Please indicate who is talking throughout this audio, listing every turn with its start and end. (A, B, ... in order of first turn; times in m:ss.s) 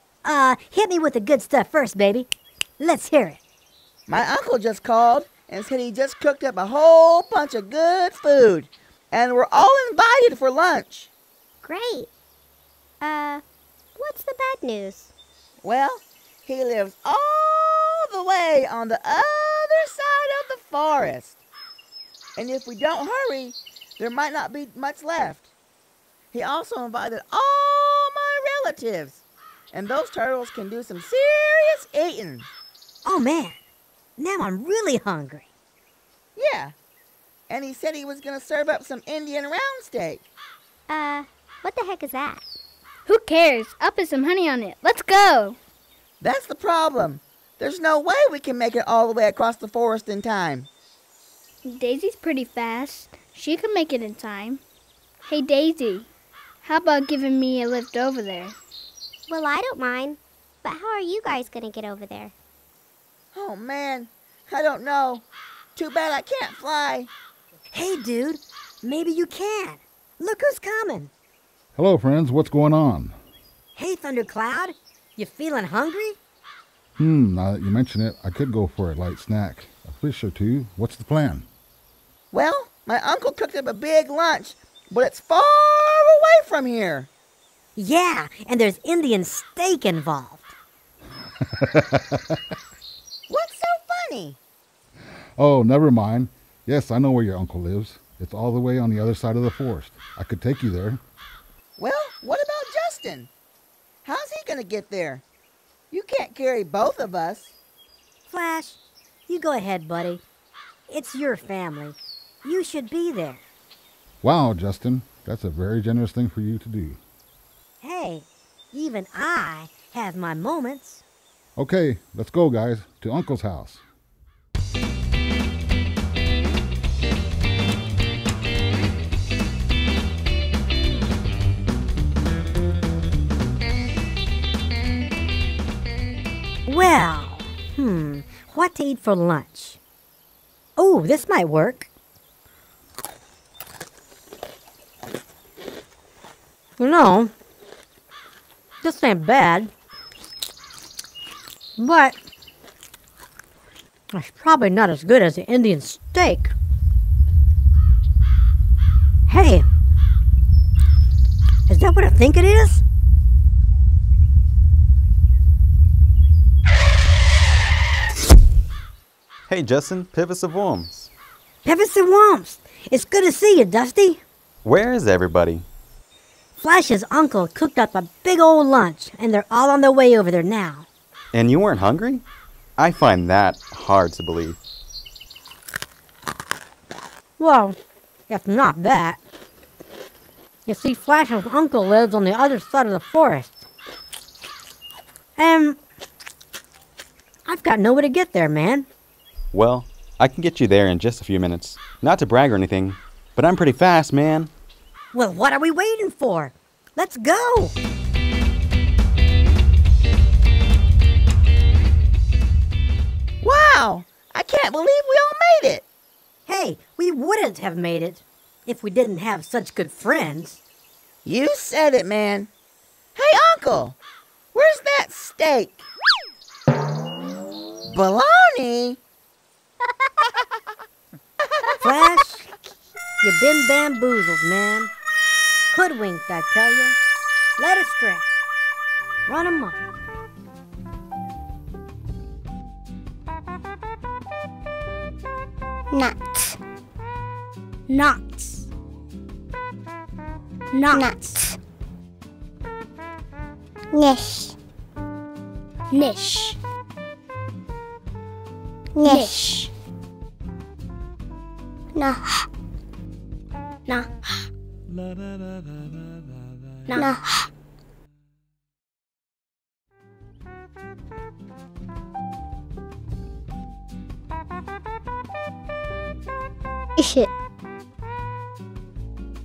0:00.2-0:03.4 A
0:04.1-0:11.1 B
0:11.6-0:12.1 C
0:13.0-0:13.4 C
0:14.0-0:15.1 C
0:15.6-0:21.4 B
0:22.4-0:25.5 B
0:26.3-0:29.2 B
0:29.7-0:32.5 B
0:33.0-0:33.6 A
0:34.2-0:35.4 A
0:36.4-0:36.7 B
0:37.5-0:40.2 B
0:40.9-0:42.4 C
0:43.0-0:45.6 D
0:46.2-0:50.7 B
0:51.6-0:54.6 D
0:55.2-0:56.1 D
0:56.6-0:58.6 D
0:59.3-1:02.3 C
1:03.3-1:05.2 B
1:05.8-1:07.1 B
1:07.7-1:11.1 A
1:11.8-1:13.2 E
1:13.8-1:16.2 A
1:17.0-1:21.5 E
1:22.3-1:27.1 B
1:27.8-1:30.5 A
1:31.6-1:32.4 E
1:33.3-1:34.4 B
1:35.4-1:41.0 E
1:41.8-1:43.3 B
1:44.0-1:45.2 B
1:45.9-1:47.5 B
1:48.3-1:50.2 A
1:50.9-1:53.4 A
1:54.2-1:57.0 E
1:57.8-2:01.0 A
2:01.6-2:03.8 E
2:16.6-2:19.8 A
2:20.8-2:21.9 A
2:26.8-2:27.3 A
2:28.8-2:29.7 A
2:31.8-2:32.2 A
2:34.1-2:36.5 A
2:39.3-2:39.6 A
2:41.7-2:42.8 A
2:49.5-2:51.1 F
2:51.6-2:54.2 A
2:54.6-2:55.6 F
2:56.6-3:00.8 A
3:01.3-3:02.2 F
3:02.8-3:04.6 F
3:07.4-3:07.8 A
3:08.3-3:09.2 A
3:10.6-3:13.6 A
3:15.4-3:15.8 A
3:17.4-3:18.9 A
3:19.5-3:24.5 F
3:25.1-3:27.7 A
3:33.4-3:35.8 B
3:36.4-3:40.6 A
3:41.2-3:42.5 B
3:43.1-3:44.0 B
3:44.5-3:45.8 B
3:47.8-3:49.0 B
3:51.8-3:52.5 A
3:53.2-3:54.9 A
3:55.7-3:57.0 A
3:57.6-3:58.3 A
3:59.3-3:59.8 A
4:05.9-4:06.6 G
4:07.9-4:08.7 H
4:10.7-4:11.3 H
4:10.9-4:11.6 G
4:13.9-4:14.6 G
4:15.9-4:16.6 H
4:19.0-4:19.6 G
4:19.0-4:19.7 H
4:21.9-4:22.5 G
4:23.9-4:24.5 H
4:26.9-4:27.2 H
4:27.0-4:27.5 G
4:37.0-4:37.3 G